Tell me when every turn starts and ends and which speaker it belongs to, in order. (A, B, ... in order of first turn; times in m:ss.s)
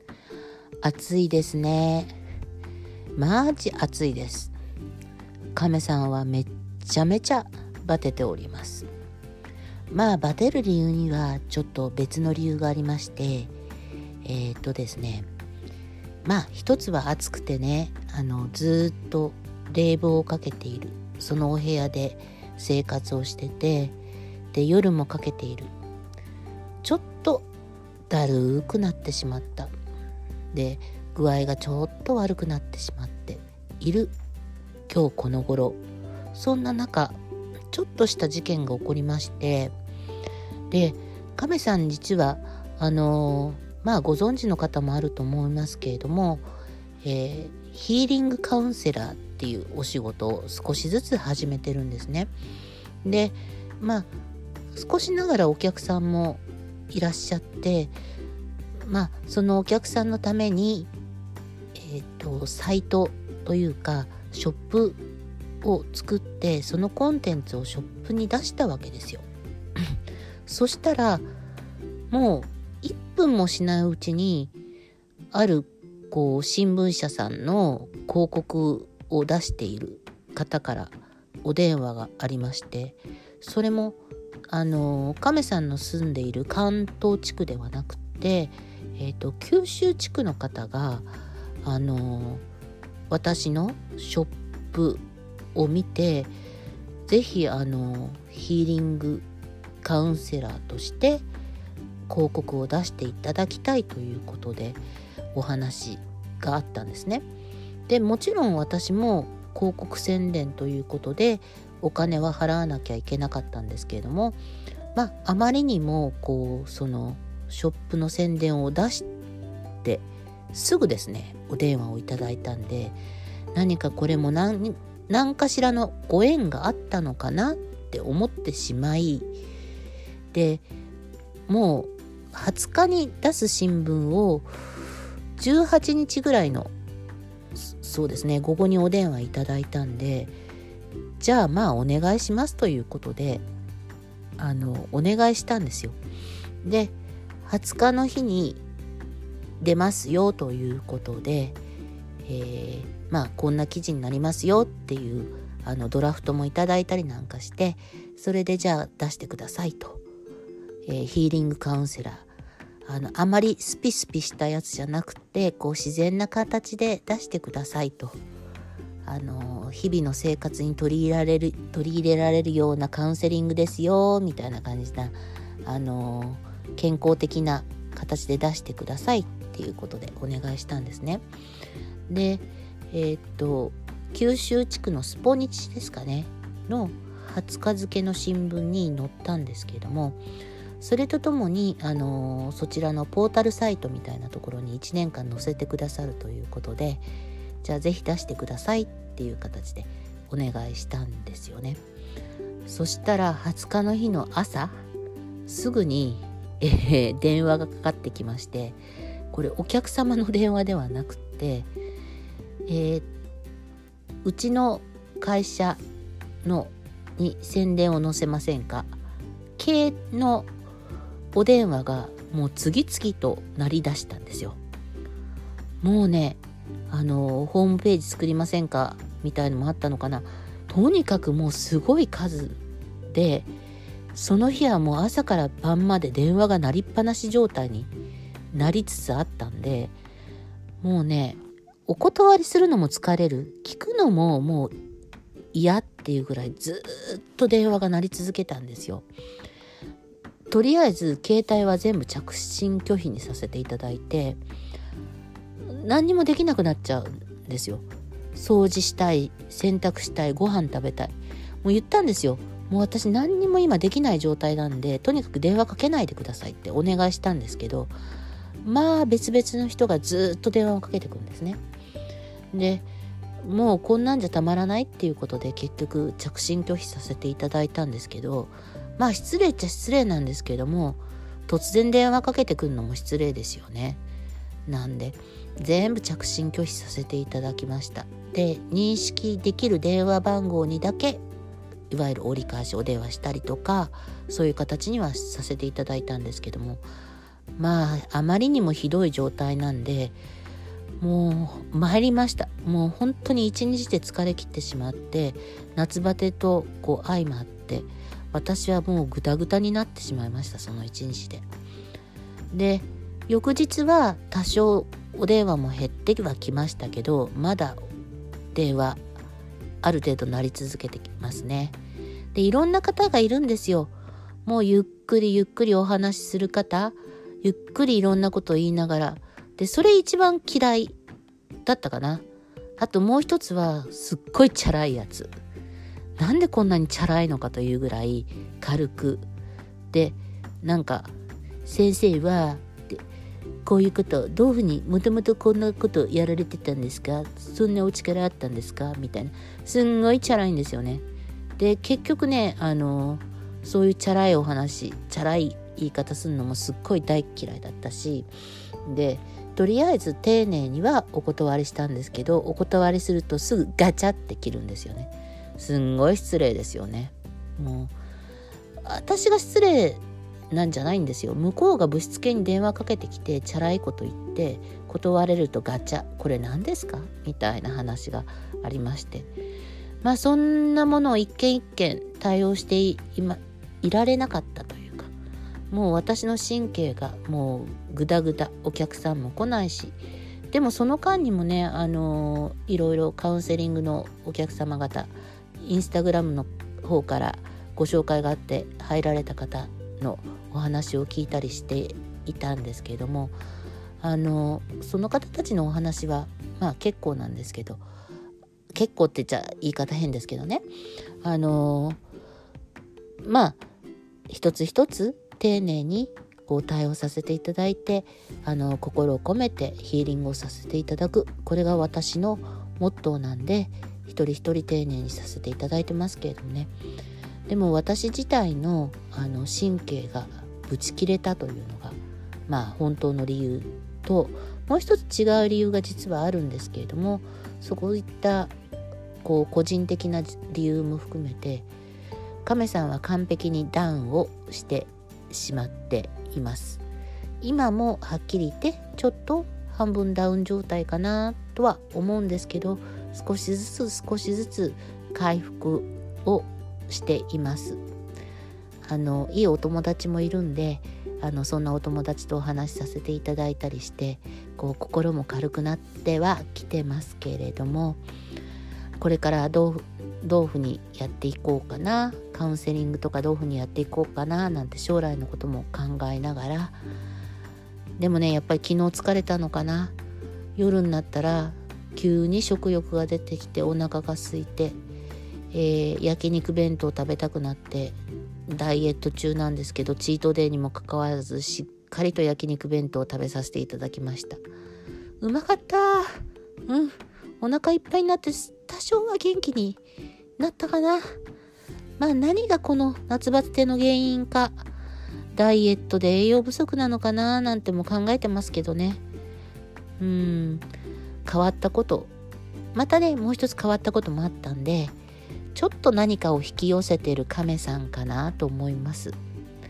0:00.8-0:02.2 A
0:03.2-0:04.5 A
0:05.5-0:08.9 A
0:09.9-0:13.5 A
0:14.2-0:15.3 A
0:16.2-0:24.0 A
0:24.5-0:25.7 A
0:26.8-0:27.5 A
0:28.1-0:29.7 A
0:30.5-0:34.1 A
0:34.9-0:35.8 A
0:36.3-0:37.2 A
0:37.7-0:39.7 A
0:40.7-0:46.5 A
0:47.0-0:52.3 A
0:53.0-0:54.1 A
0:54.7-0:58.0 A
0:58.8-1:00.9 A
1:01.8-1:05.0 A
1:05.6-1:09.2 A
1:10.5-1:11.3 A
1:12.1-1:14.5 A
1:15.3-1:31.1 A
1:31.6-1:32.4 A
1:33.1-1:35.0 A
1:35.6-1:36.3 A
1:37.1-1:39.3 A
1:39.8-1:41.3 A
1:42.1-1:44.8 A
1:45.3-1:47.3 A
1:47.9-1:54.4 A
1:55.0-1:59.1 A
1:59.8-2:03.0 A
2:03.5-2:09.3 A
2:10.3-2:10.7 A
2:11.5-2:14.5 A
2:15.4-2:16.7 A
2:17.6-2:20.3 A
2:21.2-2:23.5 A
2:24.4-2:26.0 A
2:26.6-2:28.6 A
2:29.6-2:31.6 A
2:32.3-2:40.0 A
2:40.9-2:42.3 A
2:42.9-2:48.2 A
2:49.0-3:01.2 A
3:02.1-3:10.2 A
3:10.8-3:17.0 A
3:17.6-3:21.8 A
3:22.7-3:24.8 A
3:25.5-3:28.8 A
3:29.3-3:31.7 A
3:32.7-3:33.1 A
3:34.2-3:35.8 A
3:36.4-3:39.0 A
3:39.6-3:40.5 A
3:41.3-3:44.6 A
3:45.8-3:52.6 A
3:53.1-3:53.5 A
3:54.1-3:57.9 A
3:58.5-4:00.0 A
4:00.8-4:04.7 A
4:05.5-4:09.1 A
4:10.5-4:14.4 A
4:15.7-4:27.9 A
4:28.6-4:31.6 A
4:32.5-4:32.9 A
4:33.4-4:44.0 A
4:44.7-4:51.2 A
4:51.9-4:56.8 A
4:57.6-5:00.2 A
5:01.0-5:11.4 A
5:12.5-5:17.8 A
5:18.5-5:19.0 A
5:19.8-5:21.8 A
5:22.3-5:23.9 A
5:24.4-5:31.0 A
5:31.7-5:32.3 A
5:32.8-5:35.3 A
5:36.2-5:39.3 A
5:39.9-5:41.1 A
5:41.6-5:43.0 A
5:43.6-5:51.0 A
5:51.6-5:58.3 A
5:58.9-6:08.0 A
6:08.8-6:19.3 A
6:20.0-6:25.1 A
6:25.7-6:30.0 A
6:30.5-6:43.4 A
6:44.0-6:47.8 A
6:48.8-6:50.6 A
6:51.2-6:52.0 A
6:53.2-6:53.6 A
6:54.3-7:06.7 A
7:07.5-7:18.5 A
7:19.2-7:21.7 A
7:22.4-7:26.8 A
7:27.4-7:37.8 A
7:38.8-7:48.0 A
7:49.0-7:56.8 A
7:58.0-8:00.0 A
8:00.6-8:04.8 A
8:05.5-8:14.4 A
8:15.2-8:16.1 A
8:16.7-8:19.8 A
8:20.4-8:21.1 A
8:22.0-8:24.6 A
8:25.3-8:29.0 A
8:30.0-8:30.7 A
8:31.2-8:32.1 A
8:32.7-8:35.0 A
8:35.6-8:39.2 A